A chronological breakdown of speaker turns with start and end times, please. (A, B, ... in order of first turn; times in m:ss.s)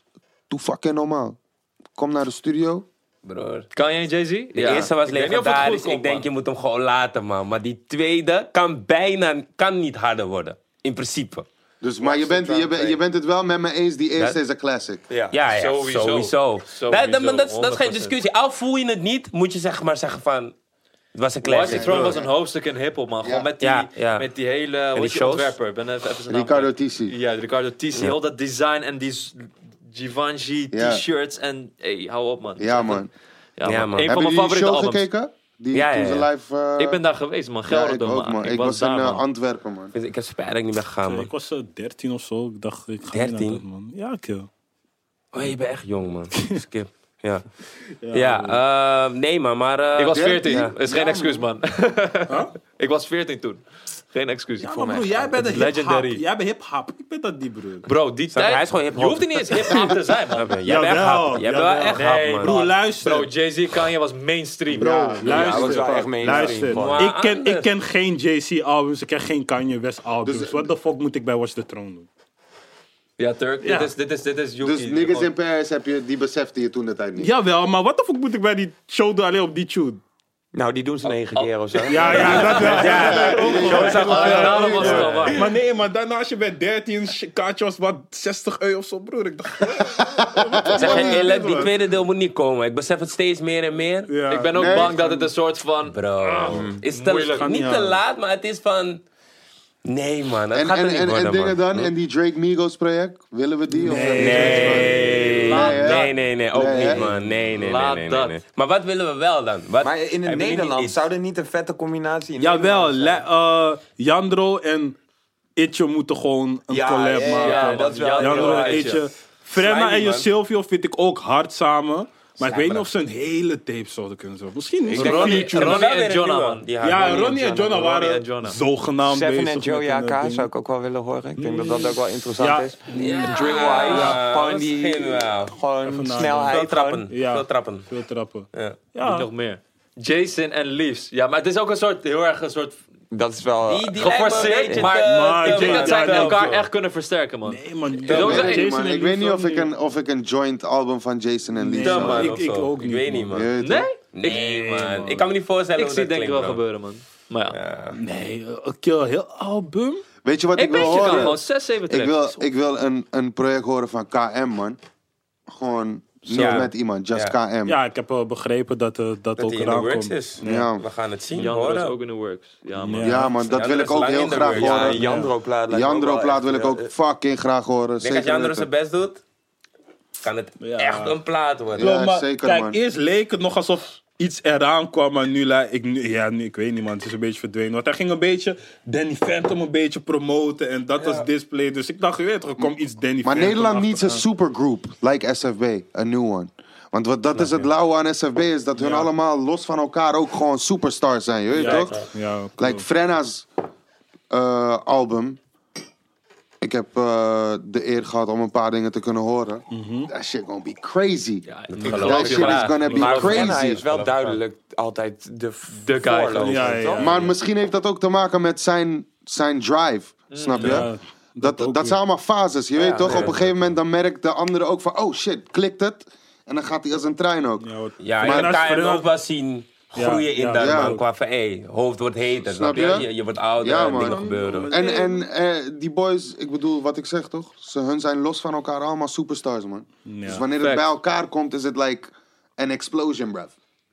0:00.5-0:01.4 A
0:02.0-0:02.9 A
0:03.2-0:03.7 B
0:03.7-0:06.3 C
0:04.5-0:11.5 B
0:11.8-0:15.0 A
0:12.0-0:13.0 D
0:15.1-0:15.4 D
0:15.3-0:20.5 B
0:15.5-0:18.2 C
0:21.2-0:22.2 B
0:21.4-0:33.0 C
0:21.6-0:22.3 A
0:23.2-0:23.5 A
0:23.6-0:24.3 B
0:24.9-0:25.6 B
0:26.3-0:27.1 A
0:30.7-0:31.0 A
0:32.6-0:33.1 A
0:33.6-0:35.1 C
0:33.6-0:34.1 B
0:34.0-0:37.0 A
0:35.7-0:36.3 B
0:36.8-0:39.2 C
0:37.7-0:39.9 A
0:39.9-0:41.3 B
0:41.0-0:44.5 E
0:43.1-0:43.6 B
0:45.3-0:47.5 B
0:48.0-0:48.6 E
0:48.1-0:50.8 B
0:50.0-0:54.8 C
0:50.1-0:51.4 A
0:54.6-0:57.9 E
0:54.7-0:55.6 D
0:55.4-0:56.2 C
0:57.8-1:00.5 C
0:58.3-1:02.6 B
1:00.6-1:03.3 E
1:01.9-1:05.9 C
1:04.8-1:06.1 A
1:04.8-1:12.1 E
1:05.2-1:07.1 D
1:06.2-1:07.7 B
1:10.2-1:10.7 A
1:13.2-1:15.3 C
1:13.6-1:13.9 E
1:14.6-1:17.3 A
1:17.2-1:20.0 E
1:20.5-1:24.1 D
1:21.4-1:25.5 C
1:21.9-1:31.7 E
1:22.2-1:25.3 B
1:23.0-1:25.3 A
1:29.8-1:31.3 A
1:30.7-1:34.1 B
1:34.1-1:35.0 E
1:34.3-1:36.0 C
1:34.6-1:35.2 A
1:35.8-1:39.0 B
1:36.5-1:36.8 D
1:36.9-1:37.5 C
1:37.4-1:38.0 E
1:39.8-1:41.9 B
1:40.5-1:47.0 A
1:43.7-1:45.5 E
1:44.1-1:51.0 B
1:44.5-1:46.2 C
1:47.6-1:48.4 C
1:49.8-1:53.2 D
1:52.4-1:55.0 E
1:55.6-2:05.8 E
1:56.7-1:59.0 D
1:57.2-1:59.1 C
1:59.5-2:00.3 B
2:02.5-2:02.7 B
2:04.9-2:05.5 D
2:04.9-2:06.7 C
2:05.0-2:07.3 B
2:06.8-2:10.5 E
2:06.9-2:08.0 D
2:07.7-2:08.6 C
2:09.0-2:17.1 D
2:11.4-2:14.2 E
2:12.9-2:15.6 B
2:13.6-2:14.2 C
2:15.8-2:16.6 E
2:16.2-2:17.9 B
2:17.1-2:19.3 E
2:18.5-2:18.8 B
2:19.0-2:22.8 C
2:23.1-2:24.9 D
2:23.7-2:26.6 B
2:23.9-2:28.7 C
2:25.0-2:26.7 E
2:27.5-2:29.7 E
2:28.1-2:32.3 A
2:28.1-2:28.4 B
2:31.5-2:33.3 E
2:31.8-2:33.5 B
2:33.3-2:33.9 A
2:33.6-2:34.0 C
2:34.1-2:36.6 B
2:34.2-2:35.2 E
2:35.8-2:37.6 C
2:37.5-2:38.0 B
2:37.9-2:40.0 E
2:40.2-2:44.8 A
2:40.6-2:42.2 C
2:45.5-2:47.8 A
2:46.3-2:47.4 B
2:47.7-2:50.7 E
2:49.4-2:52.0 B
2:50.4-2:50.8 A
2:51.4-2:53.3 C
2:52.8-2:53.3 E
2:53.0-2:55.0 A
2:53.4-2:55.0 B
2:54.5-2:56.9 D
2:55.0-2:55.3 E
2:55.7-2:58.7 A
2:58.0-2:59.2 B
3:00.2-3:01.9 B
3:00.6-3:01.2 E
3:01.8-3:02.8 A
3:01.8-3:14.2 E
3:11.0-3:11.3 B
3:13.2-3:22.0 A
3:18.8-3:19.1 E
3:21.5-3:22.8 E
3:22.6-3:23.5 A
3:24.3-3:25.4 A
3:26.6-3:33.8 A
3:29.7-3:30.1 E
3:31.5-3:34.0 C
3:31.7-3:32.8 B
3:32.9-3:33.2 E
3:32.9-3:37.3 D
3:33.5-3:34.4 B
3:35.7-3:37.1 C
3:36.4-3:37.1 E
3:37.0-3:40.9 A
3:40.3-3:40.9 C
3:40.6-3:42.0 E
3:41.4-3:47.7 A
3:42.8-3:43.4 D
3:43.0-3:43.7 B
3:47.6-3:49.1 E
3:48.0-3:54.7 B
3:48.2-3:48.7 A
3:50.0-3:51.0 E
3:50.6-3:51.0 A
3:52.5-3:53.1 A
3:53.6-4:03.5 A
3:53.9-3:55.2 E
4:00.0-4:00.4 E
4:00.6-4:00.9 C